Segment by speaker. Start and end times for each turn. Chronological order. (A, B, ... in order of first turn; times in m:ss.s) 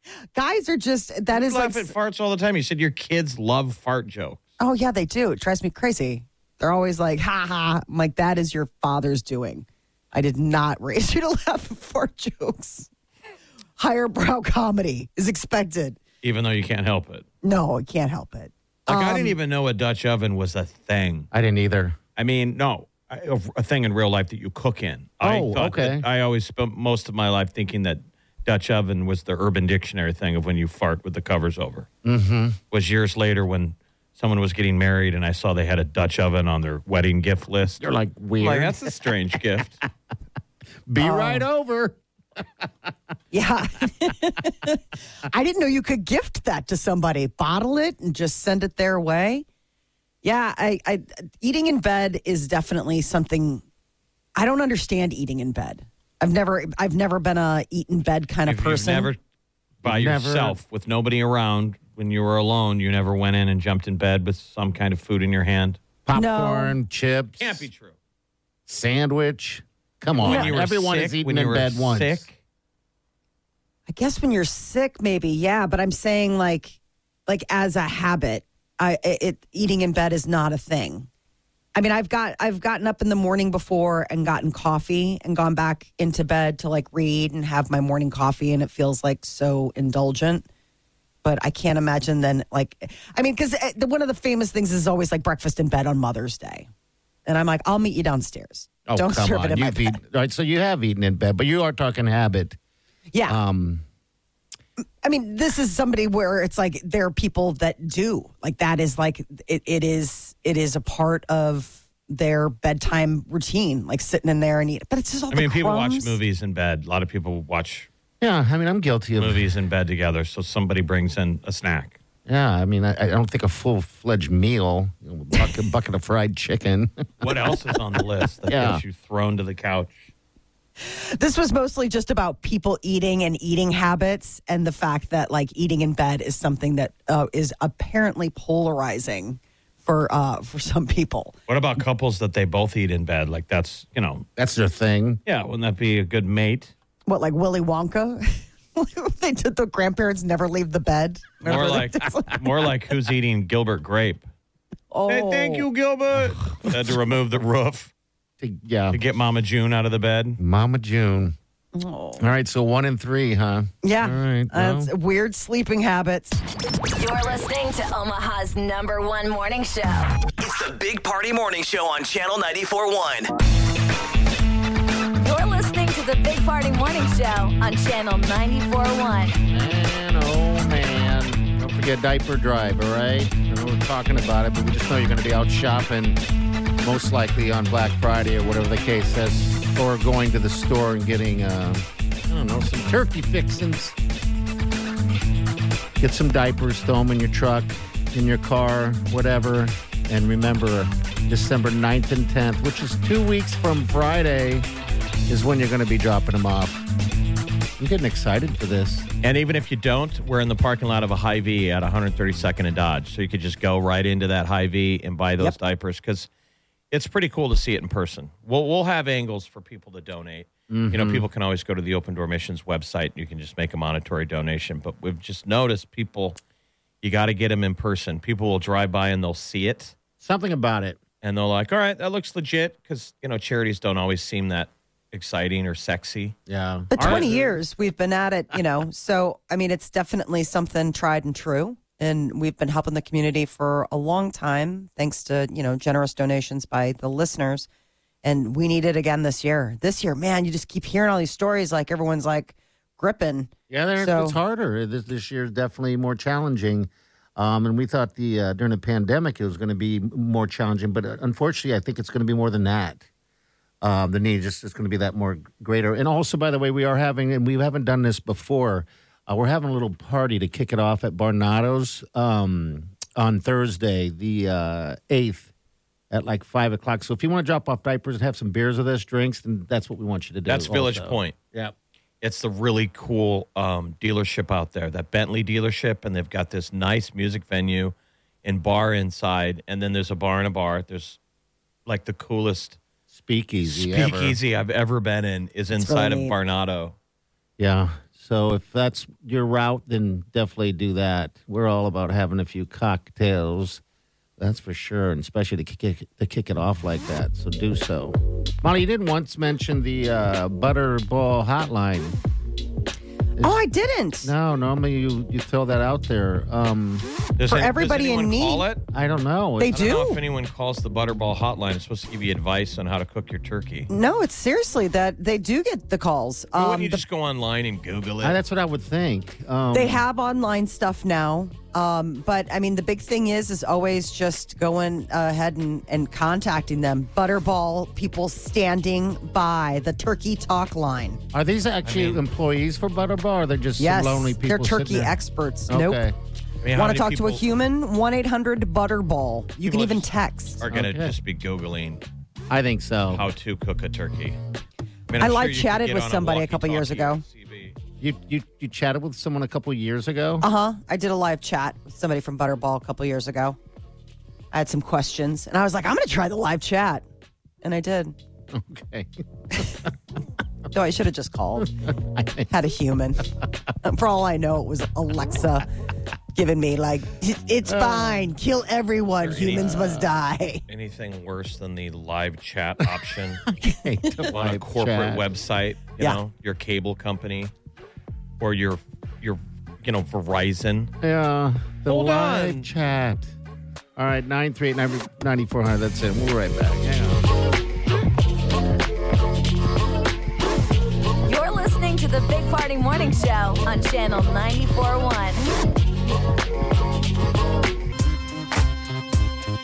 0:00.4-0:01.9 A
0:01.3-0:04.4 B
0:04.6-0:12.9 A
0:13.8-0:16.0 A
0:16.2-0:17.2 B
0:17.4-0:19.4 A
0:18.9-0:21.3 B
0:21.3-0:22.0 C
0:22.2-0:31.9 B
0:25.2-0:26.0 C
0:32.0-0:32.6 C
0:32.7-0:37.8 B
0:37.8-0:39.0 C
0:38.4-0:39.8 B
0:40.9-0:42.0 C
0:41.0-0:41.4 A
0:43.3-0:49.4 A
0:50.2-0:53.6 A
0:54.4-0:59.1 A
0:58.4-0:59.2 B
0:59.8-1:05.8 B
0:59.8-1:00.6 C
1:06.1-1:07.7 C
1:06.1-1:06.8 A
1:07.4-1:08.0 B
1:08.7-1:12.2 C
1:10.2-1:12.3 B
1:10.2-1:10.5 A
1:13.9-1:21.1 A
1:21.7-1:30.4 A
1:31.2-1:36.7 A
1:37.2-1:40.0 A
1:38.9-1:42.6 C
1:43.1-1:43.4 A
1:43.3-1:43.8 C
1:45.0-1:56.2 A
1:55.3-1:57.9 B
1:58.2-1:59.5 C
1:59.2-2:02.0 B
2:02.3-2:07.0 C
2:07.2-2:10.1 B
2:08.5-2:08.8 C
2:10.8-2:21.4 A
2:21.5-2:24.2 B
2:24.4-2:25.2 C
2:25.2-2:26.7 B
2:27.1-2:32.4 A
2:31.4-2:34.3 B
2:34.9-2:35.6 A
2:35.1-2:37.9 B
2:38.4-2:39.0 C
2:38.9-2:40.4 B
2:40.4-2:41.4 C
2:41.7-2:42.2 A
2:42.2-2:44.9 C
2:43.8-2:46.4 A
2:47.0-2:50.1 D
2:50.4-2:53.3 E
2:55.2-2:59.4 D
2:59.5-3:06.2 C
3:06.8-3:14.0 C
3:16.0-3:24.7 C
3:25.3-3:26.8 C
3:27.8-3:29.1 C
3:29.2-3:36.3 B
3:36.9-3:46.4 B
3:40.7-3:41.2 C
3:47.0-3:49.9 B
3:50.2-3:51.0 C
3:51.2-3:56.4 B
3:56.5-3:57.6 C
3:56.9-4:07.7 A
4:08.2-4:14.4 A
4:13.7-4:23.1 C
4:23.8-4:35.5 C
4:36.1-4:41.7 C
4:40.5-4:41.4 B
4:42.2-4:51.2 B
4:51.8-4:52.8 B
4:53.1-4:54.4 C
4:53.6-4:56.9 B
4:55.8-4:56.4 A
4:57.6-5:03.8 C
5:04.4-5:12.2 C
5:13.4-5:13.6 C
5:13.4-5:14.3 A
5:14.2-5:17.0 C
5:17.4-5:18.8 B
5:17.5-5:18.6 A
5:18.9-5:19.9 C
5:19.6-5:20.2 A
5:19.7-5:23.9 B
5:23.9-5:27.0 A
5:26.5-5:28.4 B
5:28.2-5:30.0 C
5:29.7-5:41.2 A
5:41.3-5:45.2 C
5:41.8-5:42.2 B
5:43.8-5:46.0 A
5:45.7-5:46.1 C
5:46.6-5:47.4 B
5:46.7-5:50.6 A
5:49.6-5:52.0 B
5:50.7-5:51.1 C
5:52.5-5:53.2 C
5:53.1-5:54.4 B
5:55.1-5:57.8 B
5:55.2-5:57.2 A
5:58.0-6:00.4 C
6:00.4-6:03.6 A
6:04.5-6:07.0 A
6:07.6-6:08.2 A
6:08.5-6:09.9 C
6:10.7-6:11.7 A
6:11.6-6:12.5 C
6:12.5-6:13.2 A
6:13.8-6:15.7 A
6:16.4-6:20.6 A
6:17.6-6:18.3 C
6:19.2-6:20.1 B
6:20.7-6:23.4 B
6:22.9-6:25.2 C
6:23.6-6:24.3 A
6:24.3-6:27.5 B
6:28.4-6:30.9 B
6:31.0-6:33.4 C
6:31.9-6:32.7 B
6:34.0-6:37.2 C
6:41.2-6:45.4 D